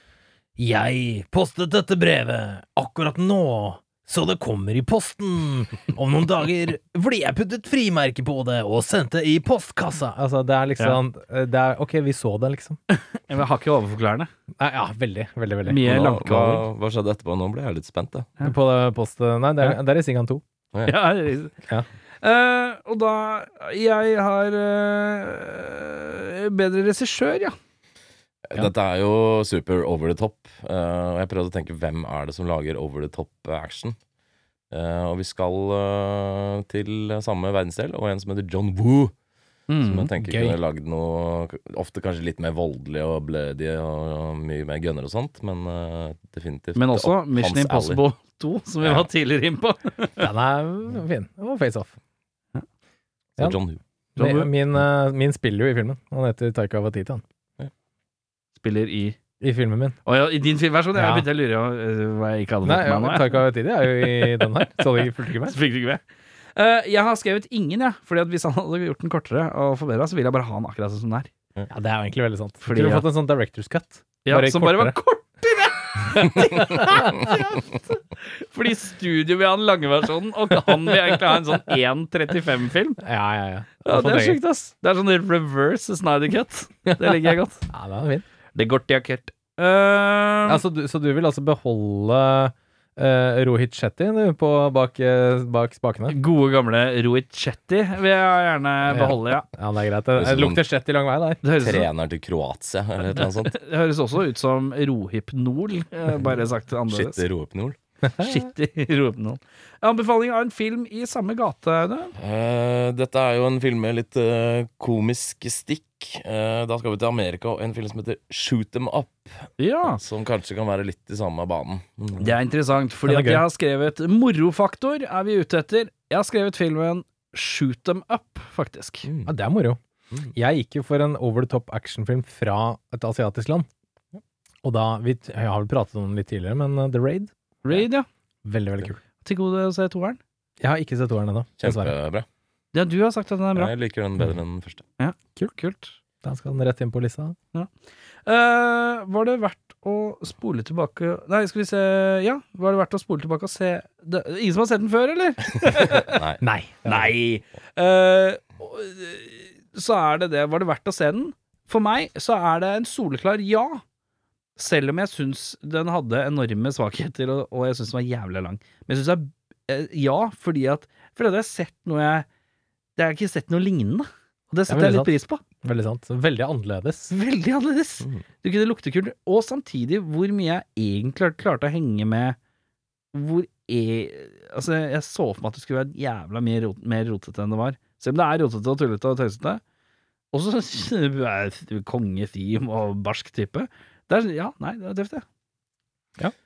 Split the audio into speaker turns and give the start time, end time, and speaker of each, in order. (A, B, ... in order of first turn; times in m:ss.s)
0:00.6-0:12.8 A
0:12.9-0:14.3 B
0:14.6-0:15.8 A
0:15.6-0:16.7 B
0:15.8-0:18.3 C
0:18.4-0:20.4 A
0:20.9-0:21.5 B
0:22.2-0:27.6 B
0:28.5-0:34.0 C
0:34.7-0:39.1 C
0:39.7-0:40.1 B
0:39.8-0:48.0 C
0:40.2-0:40.6 A
0:46.8-0:50.3 B
0:50.2-0:51.9 A
0:53.4-0:53.8 C
0:54.2-0:57.2 A
0:54.2-0:54.5 B
0:58.6-0:59.2 B
0:59.4-1:00.0 A
1:00.1-1:06.0 B
1:00.9-1:01.3 A
1:02.6-1:05.6 A
1:06.6-1:11.3 B
1:11.7-1:15.0 A
1:12.6-1:13.0 B
1:14.2-1:17.6 B
1:16.7-1:17.1 A
1:18.2-1:23.0 B
1:23.0-1:24.4 A
1:23.9-1:27.6 B
1:26.9-1:28.2 A
1:28.6-1:30.6 B
1:30.5-1:36.2 A
1:36.1-1:39.5 B
1:38.9-1:41.4 A
1:40.2-1:40.6 C
1:41.4-1:41.9 B
1:41.6-1:43.6 C
1:43.1-1:47.2 B
1:46.9-1:47.8 C
1:48.0-1:48.4 A
1:48.2-1:52.2 B
1:52.2-2:02.4 C
1:59.6-2:00.0 B
2:02.2-2:09.1 B
2:03.1-2:03.4 A
2:09.1-2:09.3 C
2:09.3-2:09.8 A
2:10.3-2:13.7 A
2:14.6-2:17.3 A
2:17.6-2:18.1 B
2:18.4-2:19.0 A
2:19.2-2:20.2 B
2:20.6-2:21.9 A
2:21.6-2:22.3 C
2:22.7-2:23.7 B
2:23.6-2:24.8 C
2:25.0-2:25.9 B
2:26.2-2:27.4 A
2:28.3-2:36.2 B
2:36.0-2:36.4 C
2:36.4-2:37.1 A
2:36.8-2:43.8 B
2:44.6-2:52.3 B
2:53.0-2:55.4 B
2:54.7-2:55.1 A
2:55.6-2:57.2 A
2:57.1-3:02.4 B
3:03.1-3:09.6 B
3:10.3-3:15.2 B